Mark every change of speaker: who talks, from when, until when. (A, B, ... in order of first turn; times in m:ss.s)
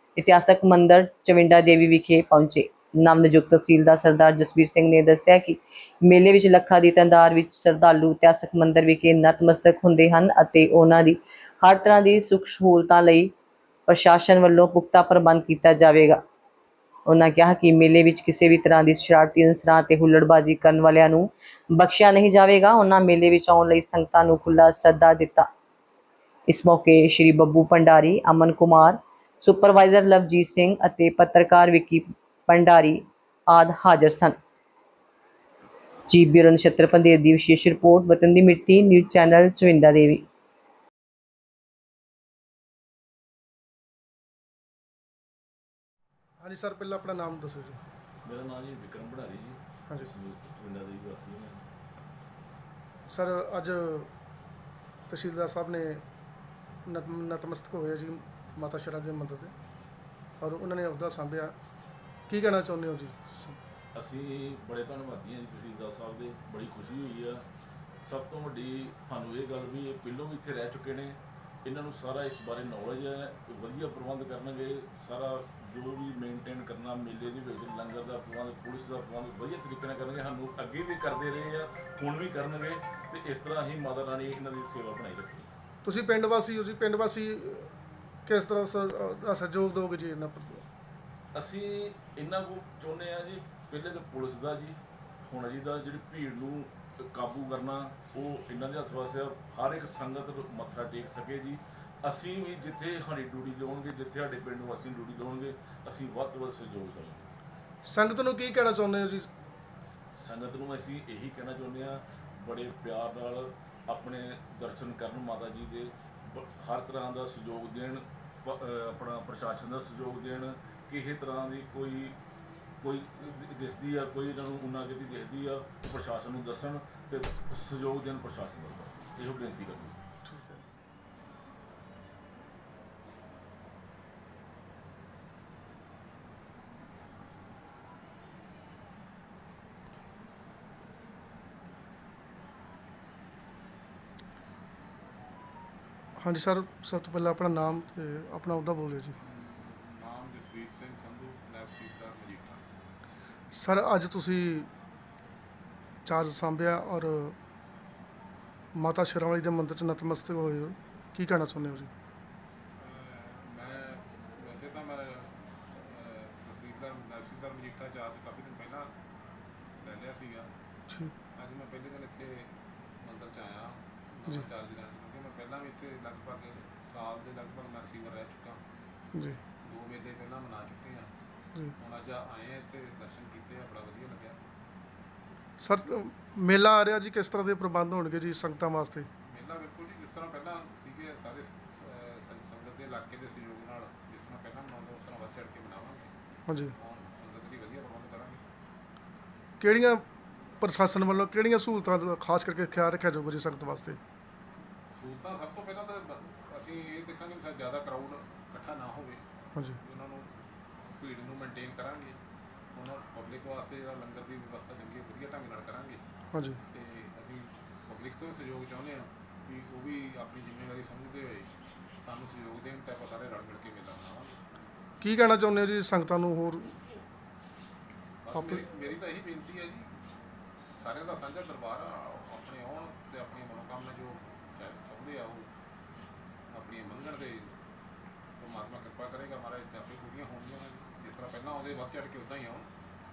0:00.2-0:13.3 A
0:13.9-0:16.2 A
0:17.1-0:25.5 A
0:26.5-0:34.4 A
0:36.1-0:40.2 A
0:46.4-0:47.8 B
0:48.2-0:51.7 C
0:53.1-0:54.1 B
0:55.1-0:56.0 B
0:56.8-0:59.5 B
1:00.4-1:01.5 B
1:02.3-1:03.6 B
1:03.9-1:07.4 C
1:08.0-1:25.5 C
1:25.8-1:27.7 B
1:28.2-1:30.6 B
1:31.3-1:47.3 C
1:47.8-1:49.3 B
1:50.2-2:02.1 C
2:02.8-2:10.0 C
2:10.2-2:10.6 B
2:26.2-2:29.2 B
2:29.2-2:32.6 D
2:33.5-2:34.7 B
2:36.0-2:37.4 B
2:38.7-2:41.9 B
2:42.8-2:48.9 D
2:49.8-2:50.5 D
2:50.9-2:51.1 B
2:51.3-2:58.6 D
2:59.1-2:59.4 B
2:59.6-3:01.1 D
3:01.8-3:04.4 D
3:05.6-3:09.1 B
3:09.2-3:16.1 D
3:16.5-3:16.7 B
3:16.7-3:18.4 D
3:19.6-3:20.0 B
3:20.6-3:24.0 B
3:24.9-3:29.2 D
3:29.5-3:29.8 B
3:29.8-3:32.2 D
3:32.7-3:36.0 D
3:36.3-3:36.6 B
3:36.7-3:44.6 D
3:45.0-3:47.0 B
3:48.2-3:50.0 D
3:48.3-3:48.6 B
3:50.8-3:55.5 D
3:56.5-3:57.5 D
3:58.4-4:02.7 D